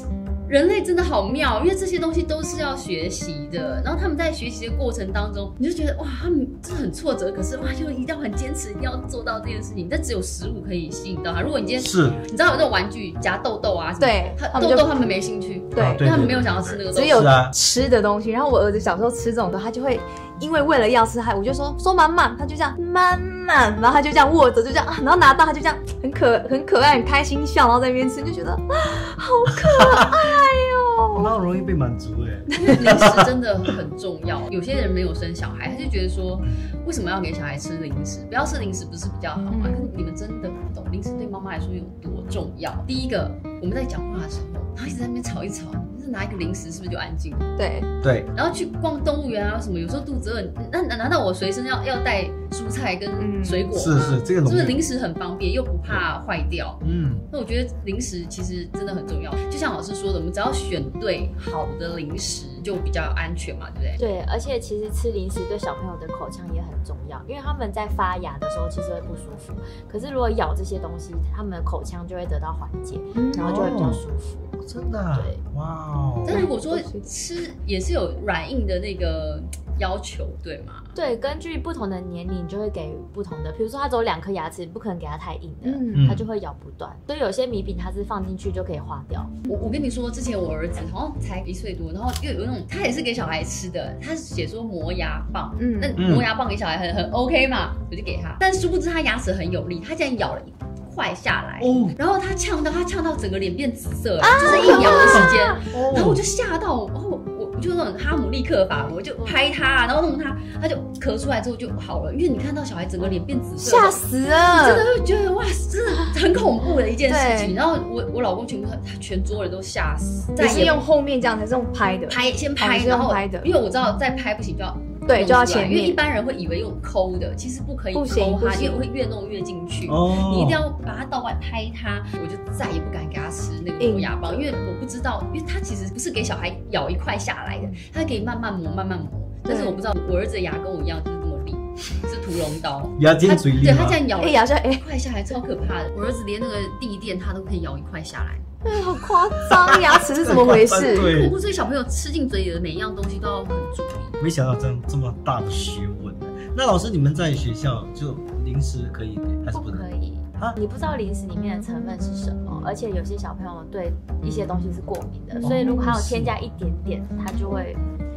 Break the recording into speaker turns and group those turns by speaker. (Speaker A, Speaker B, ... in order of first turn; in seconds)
Speaker A: 0.5-17.2, 32.7-47.5, 48.3-56.8, 57.3-64.1, 76.2-80.9, 89.5-120.9, 122.1-148.4, 150.8-154.2
Speaker B: 11.8-12.2, 15.8-17.6, 29.5-30.2, 31.1-33.3, 48.0-48.3, 53.7-54.8, 56.8-57.2, 73.4-74.0, 74.6-76.5, 85.9-86.2, 96.0-96.3, 101.6-102.0, 104.5-106.2, 129.8-130.6, 143.0-144.0, 149.5-151.3, 154.2-159.9, 165.4-166.4
Speaker C: 14.0-14.9, 15.7-16.0, 16.9-31.3, 32.5-32.8, 39.5-39.9, 47.6-47.9, 53.2-53.7, 73.1-73.6, 76.7-77.0, 85.6-86.1, 95.6-96.0, 104.2-105.6, 113.6-114.8, 117.0-117.5, 120.4-123.5, 125.0-126.0, 127.9-128.8, 133.8-134.6, 139.4-139.8, 144.2-144.8, 148.6-151.1, 165.3-165.9
Speaker D: 64.0-74.5, 75.1-75.4, 80.9-89.3, 159.5-167.8